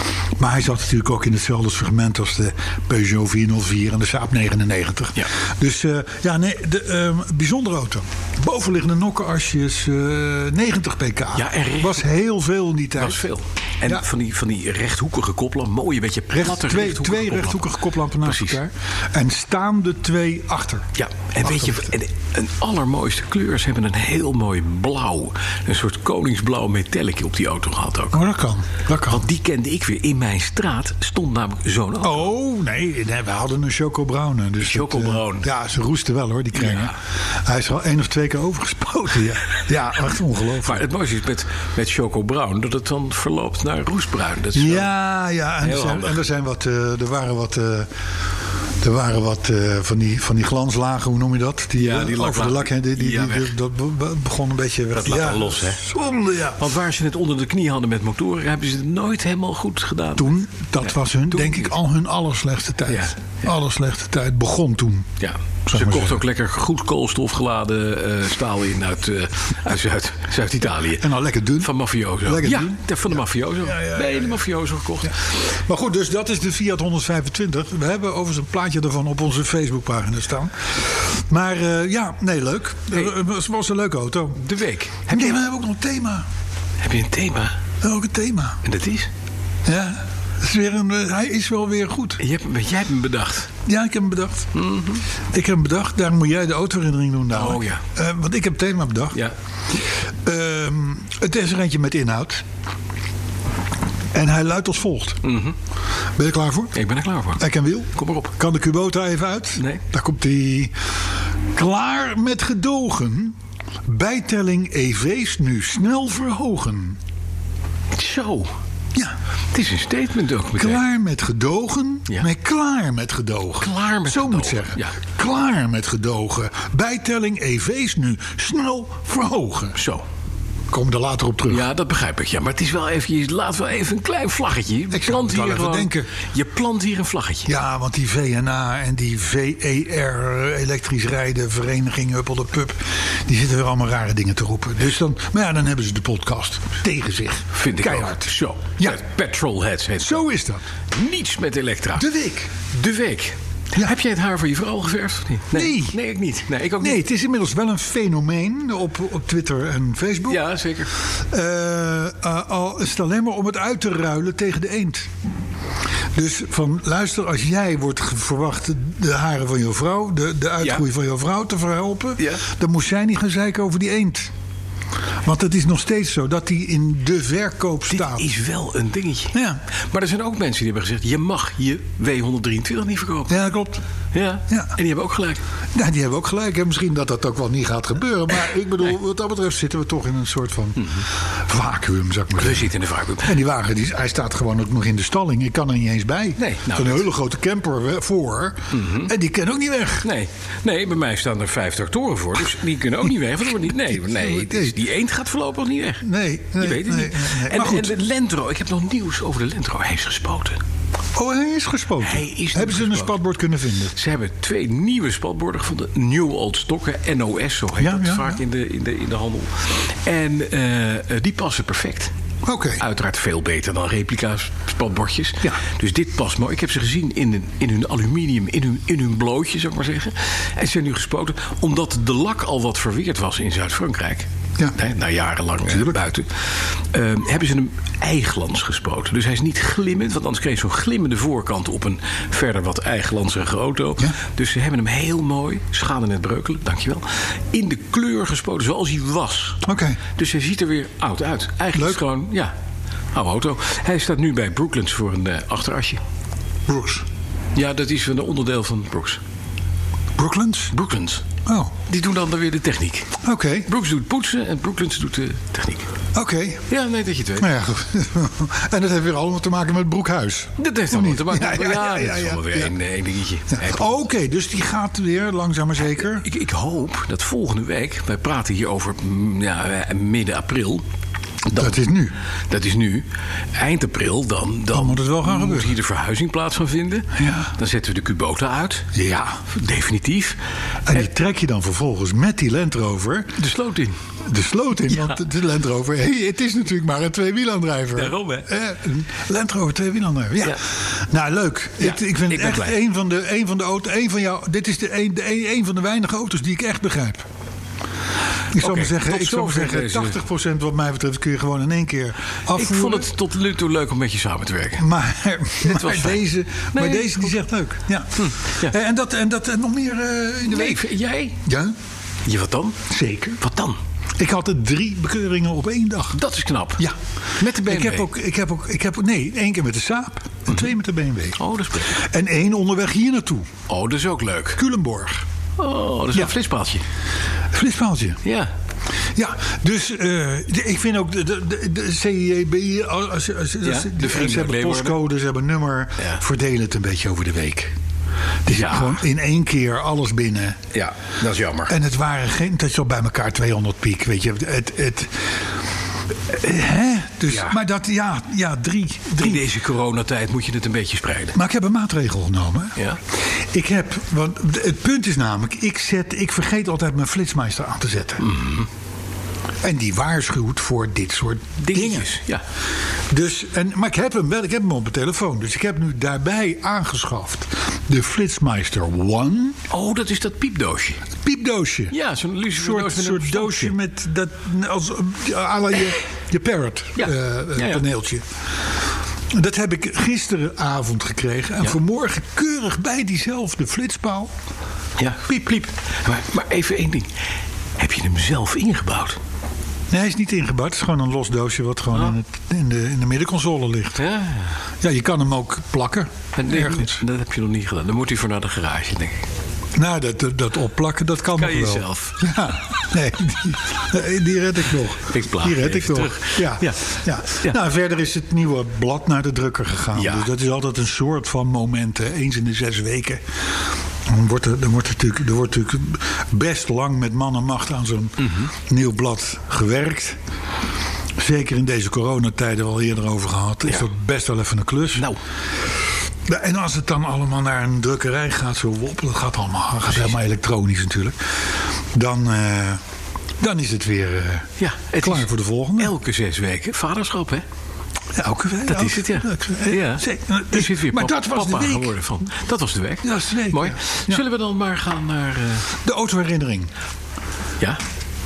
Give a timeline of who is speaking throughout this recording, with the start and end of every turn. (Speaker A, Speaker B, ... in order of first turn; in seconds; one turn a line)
Speaker A: 0.4-13.2
Speaker B: 11.3-12.1
Speaker B: 13.0-18.6
Speaker A: 16.3-20.9
Speaker B: 21.0-28.2
Speaker A: 21.4-21.9
Speaker A: 28.1-29.2
Speaker B: 29.1-32.3
Speaker A: 32.0-40.8
Speaker B: 34.6-35.5
Speaker B: 36.5-37.0
Speaker B: 40.6-44.9
Speaker A: 44.5-47.9
Speaker B: 45.6-46.2
Speaker A: 48.8-56.6
Speaker B: 51.8-53.5
Speaker B: 54.9-55.8
Speaker B: 56.6-61.8
Speaker A: 60.2-65.1
Speaker B: 62.9-63.5
Speaker B: 65.2-71.1
Speaker A: 65.7-66.2
Speaker A: 71.0-71.7
Speaker B: 71.6-75.4
Speaker A: 72.2-74.4
Speaker A: 75.0-84.4
Speaker B: 84.4-85.4
Speaker A: 85.1-86.2
Speaker B: 86.8-87.6
Speaker A: 87.8-88.6
Speaker B: 88.6-89.1
Speaker A: 89.7-92.2
Speaker B: 92.2-93.5
Speaker A: 93.7-94.5
Speaker B: 94.5-95.0
Speaker A: 95.3-99.2
Speaker B: 97.3-97.8
Speaker A: 100.2-102.4
Speaker A: 104.1-105.3
Speaker B: 105.2-105.5
Speaker A: 106.2-106.8
Speaker B: 106.8-107.5
Speaker A: 107.4-110.7
Speaker B: 108.0-108.3
Speaker B: 109.6-109.8
Speaker A: 111.5-117.0
Speaker B: 117.9-118.5
Speaker B: 119.5-120.8
Speaker A: 120.6-129.8
Speaker B: 123.6-125.0
Speaker B: 129.8-130.0
Speaker A: 130.7-131.7
Speaker B: 131.5-137.5
Speaker A: 134.9-136.1
Speaker A: 137.5-149.0
Speaker B: 147.5-150.2
Speaker A: 150.0-150.6
Speaker B: 150.9-152.1
Speaker A: 152.0-152.5
Speaker B: 152.7-157.0
Speaker A: 155.5-156.0
Speaker A: 156.8-160.4
Speaker B: 160.3-160.9
Speaker A: 161.1-165.1
Speaker A: 166.2-174.3
Speaker A: 175.2-178.3
Speaker B: 177.9-179.4
Speaker A: 179.3-179.6
Speaker B: 179.9-183.4
Speaker A: 183.3-183.8
Speaker B: 184.1-185.4
Speaker A: 184.5-184.8
Speaker A: 185.8-200.1
Speaker B: 190.8-191.1
Speaker B: 192.4-193.4
Speaker B: 196.4-197.1
Speaker B: 198.7-199.1
Speaker B: 200.0-206.1
Speaker A: 203.9-204.8
Speaker A: 206.0-207.9
Speaker B: 206.6-210.6
Speaker A: 211.2-214.0
Speaker B: 212.0-213.1
Speaker B: 213.9-222.1
Speaker A: 217.8-218.4
Speaker A: 222.4-222.8
Speaker B: 222.8-249.6
Speaker A: 235.7-236.0
Speaker A: 249.6-250.0
Speaker B: 250.2-252.5
Speaker A: 251.7-252.0
Speaker B: 253.1-256.0
Speaker A: 256.7-257.1
Speaker B: 257.6-259.2
Speaker A: 260.2-260.7
Speaker B: 260.7-261.2
Speaker A: 261.5-261.8
Speaker B: 261.9-263.2
Speaker A: 263.2-263.7
Speaker B: 263.7-265.9
Speaker A: 266.1-266.7
Speaker B: 266.7-267.5
Speaker A: 267.4-272.7
Speaker B: 270.6-274.0
Speaker A: 273.5-276.3
Speaker B: 275.8-280.8
Speaker B: 281.5-281.8
Speaker A: 281.5-282.1
Speaker B: 282.5-288.9
Speaker A: 284.7-285.8
Speaker A: 287.1-287.5
Speaker A: 288.9-289.4
Speaker B: 289.5-290.4
Speaker A: 290.9-293.4
Speaker B: 293.4-293.9
Speaker A: 294.2-307.3
Speaker B: 294.9-295.2
Speaker B: 297.9-298.5
Speaker B: 301.8-302.8
Speaker A: 308.5-313.1
Speaker B: 308.6-310.2
Speaker B: 312.5-314.9
Speaker A: 314.8-320.9
Speaker B: 315.6-316.2
Speaker B: 316.7-317.4
Speaker B: 318.2-318.8
Speaker B: 320.4-321.4
Speaker A: 321.4-321.8
Speaker B: 322.2-322.8
Speaker A: 322.9-323.4
Speaker B: 323.4-323.8
Speaker A: 324.2-326.2
Speaker B: 326.1-328.1
Speaker A: 327.5-333.5
Speaker B: 331.4-332.0
Speaker B: 333.7-334.6
Speaker A: 334.6-335.2
Speaker B: 335.6-336.8
Speaker A: 337.5-338.2
Speaker B: 338.2-338.5
Speaker A: 339.1-347.8
Speaker B: 343.6-345.0
Speaker A: 348.5-350.6
Speaker B: 348.5-349.0
Speaker B: 350.7-351.8
Speaker A: 351.7-355.5
Speaker A: 356.3-359.5
Speaker B: 357.3-357.6
Speaker B: 359.2-361.4
Speaker A: 361.3-368.4
Speaker B: 368.2-368.7
Speaker A: 369.6-372.1
Speaker B: 371.6-372.4
Speaker A: 373.1-379.6
Speaker B: 379.7-381.1
Speaker A: 381.2-382.0
Speaker B: 381.9-383.8
Speaker A: 382.5-388.2
Speaker B: 387.0-387.8
Speaker A: 389.3-394.3
Speaker B: 395.0-397.1
Speaker B: 397.8-399.2
Speaker A: 399.9-404.0
Speaker B: 404.0-404.6
Speaker A: 404.8-407.0
Speaker B: 406.4-409.2
Speaker A: 409.8-423.6
Speaker B: 411.4-412.3
Speaker B: 415.1-416.8
Speaker B: 419.9-420.3
Speaker A: 424.1-430.2
Speaker B: 428.2-428.5
Speaker A: 431.2-435.1
Speaker A: 436.3-442.8
Speaker A: 443.4-444.5
Speaker B: 444.6-447.4
Speaker A: 445.0-445.9
Speaker A: 448.1-452.0
Speaker B: 448.7-455.7
Speaker A: 453.0-454.2
Speaker A: 455.8-456.7